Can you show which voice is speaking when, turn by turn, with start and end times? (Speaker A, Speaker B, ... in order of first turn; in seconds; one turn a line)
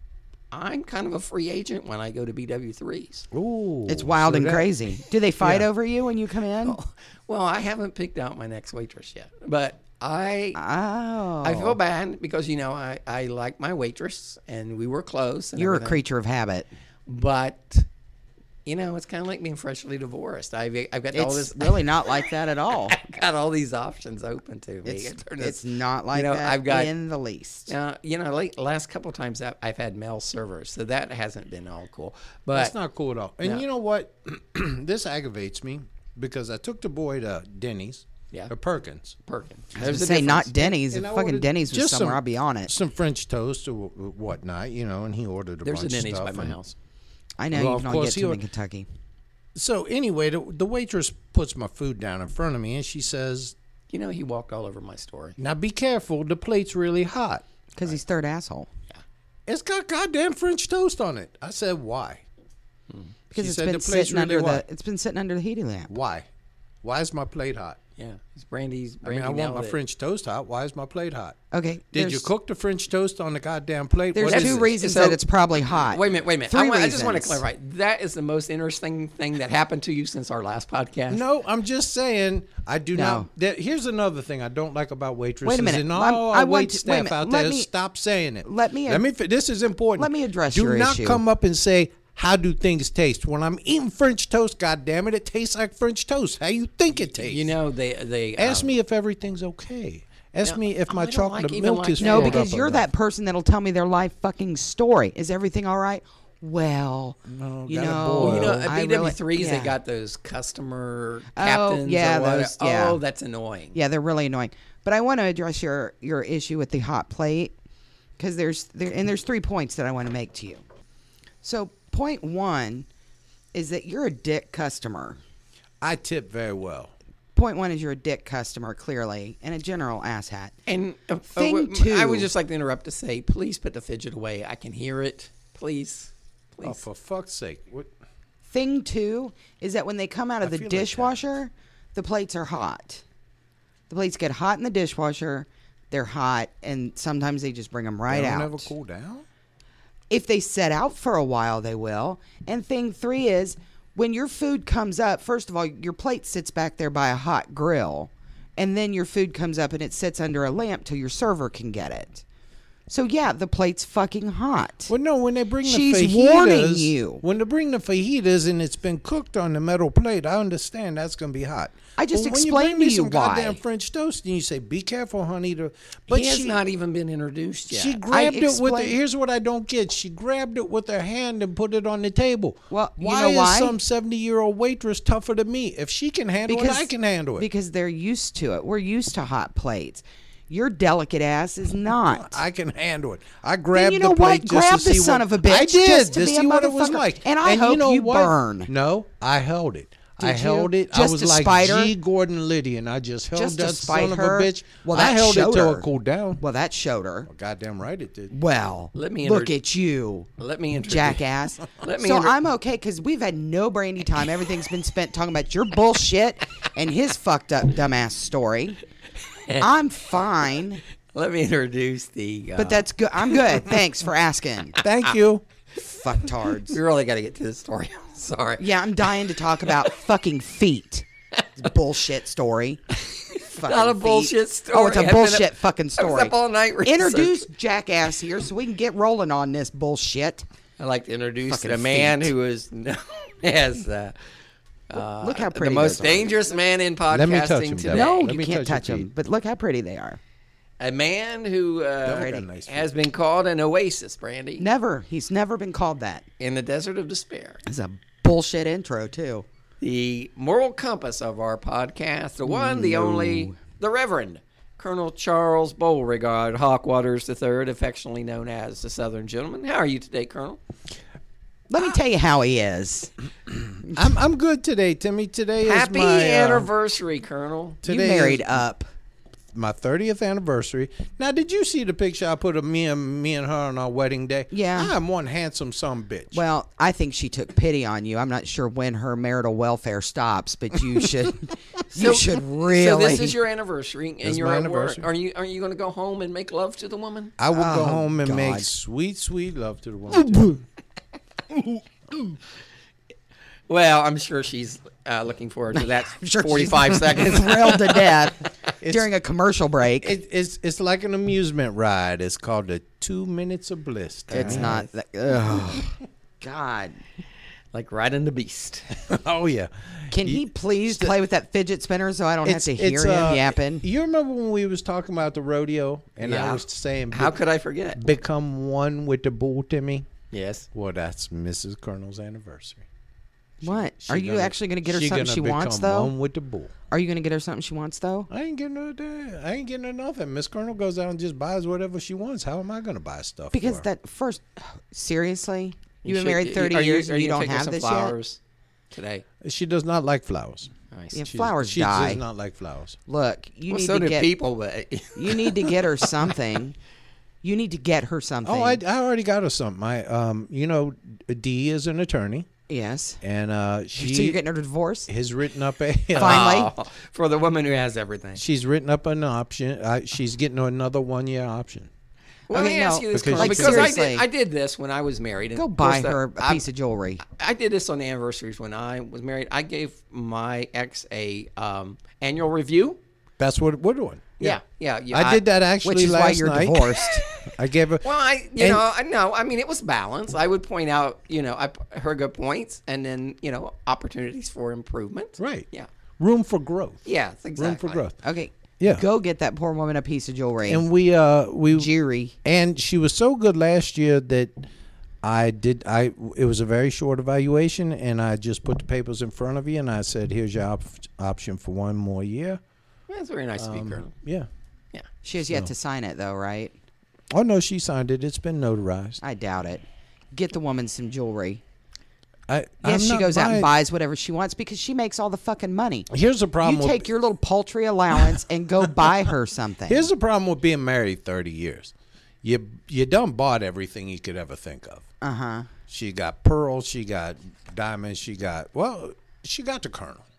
Speaker A: 0.5-3.3
Speaker B: 3.3-4.7
Speaker C: 3.9-6.8
Speaker B: 5.4-5.7
Speaker A: 6.6-10.6
Speaker C: 10.5-11.8
Speaker A: 11.4-16.0
Speaker C: 15.6-16.7
Speaker A: 17.1-17.9
Speaker A: 18.6-22.1
Speaker C: 21.1-23.0
Speaker A: 22.7-26.9
Speaker C: 24.8-27.7
Speaker A: 27.7-32.7
Speaker B: 32.5-39.2
Speaker A: 39.2-40.7
Speaker C: 39.7-42.7
Speaker B: 40.7-46.6
Speaker A: 45.6-46.7
Speaker C: 47.4-48.9
Speaker B: 47.5-48.4
Speaker B: 49.5-53.5
Speaker A: 53.9-55.4
Speaker B: 55.4-57.4
Speaker C: 57.8-58.7
Speaker B: 59.5-62.2
Speaker C: 63.3-65.9
Speaker B: 63.3-64.6
Speaker B: 65.9-66.2
Speaker B: 66.8-67.8
Speaker A: 68.0-69.8
Speaker B: 69.0-71.4
Speaker C: 71.5-72.3
Speaker B: 71.9-74.7
Speaker C: 74.1-77.4
Speaker A: 74.2-75.2
Speaker A: 75.9-81.2
Speaker B: 81.1-97.5
Speaker C: 82.9-83.3
Speaker C: 85.4-87.7
Speaker C: 88.4-89.0
Speaker C: 90.0-91.2
Speaker A: 97.0-98.7
Speaker B: 98.4-102.9
Speaker A: 100.4-102.4
Speaker C: 102.0-109.8
Speaker B: 107.3-108.7
Speaker A: 108.2-113.8
Speaker C: 111.3-113.0
Speaker C: 113.7-117.5
Speaker C: 118.2-120.6
Speaker C: 121.4-122.9
Speaker C: 123.5-125.2
Speaker B: 125.8-126.9
Speaker C: 127.3-130.5
Speaker A: 130.7-136.8
Speaker C: 131.3-132.3
Speaker B: 136.6-137.9
Speaker C: 138.4-143.0
Speaker B: 140.4-141.2
Speaker C: 143.9-148.7
Speaker B: 148.1-149.2
Speaker C: 150.1-162.2
Speaker C: 162.9-164.9
Speaker B: 164.9-176.6
Speaker C: 165.6-167.2
Speaker C: 172.0-173.6
Speaker A: 176.1-178.0
Speaker B: 177.7-187.5
Speaker C: 178.1-179.0
Speaker C: 182.7-183.8
Speaker C: 186.5-192.4
Speaker B: 192.1-206.4
Speaker C: 193.7-198.7
Speaker C: 200.2-201.9
Speaker C: 203.3-205.9
Speaker C: 206.4-207.3
Speaker B: 207.3-208.3
Speaker C: 208.3-210.3
Speaker A: 208.9-209.5
Speaker A: 210.4-212.3
Speaker C: 210.8-218.8
Speaker C: 219.6-220.8
Speaker A: 221.1-223.4
Speaker C: 222.6-224.8
Speaker B: 224.8-225.4
Speaker C: 225.7-226.8
Speaker A: 226.7-229.1
Speaker C: 228.6-232.8
Speaker A: 232.9-237.5
Speaker C: 233.5-240.5
Speaker A: 240.8-244.2
Speaker C: 241.4-242.3
Speaker A: 244.9-248.1
Speaker C: 245.0-246.5
Speaker B: 247.1-249.1
Speaker C: 247.9-250.2
Speaker A: 250.8-254.7
Speaker B: 252.0-252.9
Speaker C: 252.1-252.4
Speaker C: 254.6-256.3
Speaker A: 256.4-257.6
Speaker C: 257.6-259.4
Speaker A: 259.8-270.6
Speaker C: 262.4-263.6
Speaker C: 271.7-273.1
Speaker B: 273.8-276.7
Speaker A: 275.6-277.8
Speaker B: 277.8-278.6
Speaker C: 277.8-278.9
Speaker B: 279.5-286.4
Speaker C: 284.5-284.9
Speaker C: 286.3-293.4
Speaker A: 291.9-297.3
Speaker B: 294.2-295.1
Speaker B: 297.4-300.6
Speaker C: 297.5-298.7
Speaker A: 303.7-308.1
Speaker C: 305.7-310.1
Speaker B: 308.8-309.1
Speaker B: 310.0-314.8
Speaker C: 314.3-317.0
Speaker A: 314.3-314.9
Speaker A: 317.7-319.0
Speaker B: 319.0-321.1
Speaker C: 320.1-323.9
Speaker B: 322.4-327.4
Speaker A: 326.2-328.0
Speaker B: 327.9-330.1
Speaker A: 330.3-330.6
Speaker B: 330.7-332.9
Speaker B: 333.6-336.7
Speaker C: 333.6-336.1
Speaker C: 336.9-338.3
Speaker B: 338.3-343.9
Speaker C: 343.5-348.1
Speaker A: 346.0-348.4
Speaker A: 348.9-349.2
Speaker B: 349.4-350.7
Speaker A: 350.9-351.2
Speaker C: 351.1-352.2
Speaker B: 351.2-353.0
Speaker C: 353.1-354.3
Speaker A: 353.7-356.0
Speaker C: 355.1-356.8
Speaker C: 357.4-358.8
Speaker B: 358.4-362.5
Speaker C: 362.7-363.2
Speaker B: 363.2-364.4
Speaker C: 363.9-365.1
Speaker B: 365.1-366.5
Speaker C: 366.1-366.7
Speaker A: 366.1-368.4
Speaker B: 368.4-371.9
Speaker A: 372.5-376.6
Speaker C: 372.5-374.2
Speaker B: 373.1-373.9
Speaker C: 375.5-377.2
Speaker A: 377.2-383.0
Speaker B: 383.4-388.8
Speaker A: 384.4-385.4
Speaker C: 385.8-387.2
Speaker A: 388.0-395.9
Speaker B: 395.4-395.7
Speaker B: 396.2-398.2
Speaker A: 397.0-398.0
Speaker C: 398.2-400.8
Speaker B: 398.8-399.1
Speaker B: 400.7-401.9
Speaker C: 401.7-402.3
Speaker B: 402.4-404.7
Speaker B: 405.2-412.6
Speaker A: 413.1-414.1
Speaker B: 413.6-414.5
Speaker C: 415.2-416.8
Speaker B: 417.3-419.2
Speaker C: 419.2-421.6
Speaker B: 422.5-423.7
Speaker C: 422.8-426.1
Speaker B: 426.1-427.1
Speaker C: 426.6-430.1
Speaker B: 429.9-435.1
Speaker C: 435.2-435.7
Speaker B: 435.9-440.2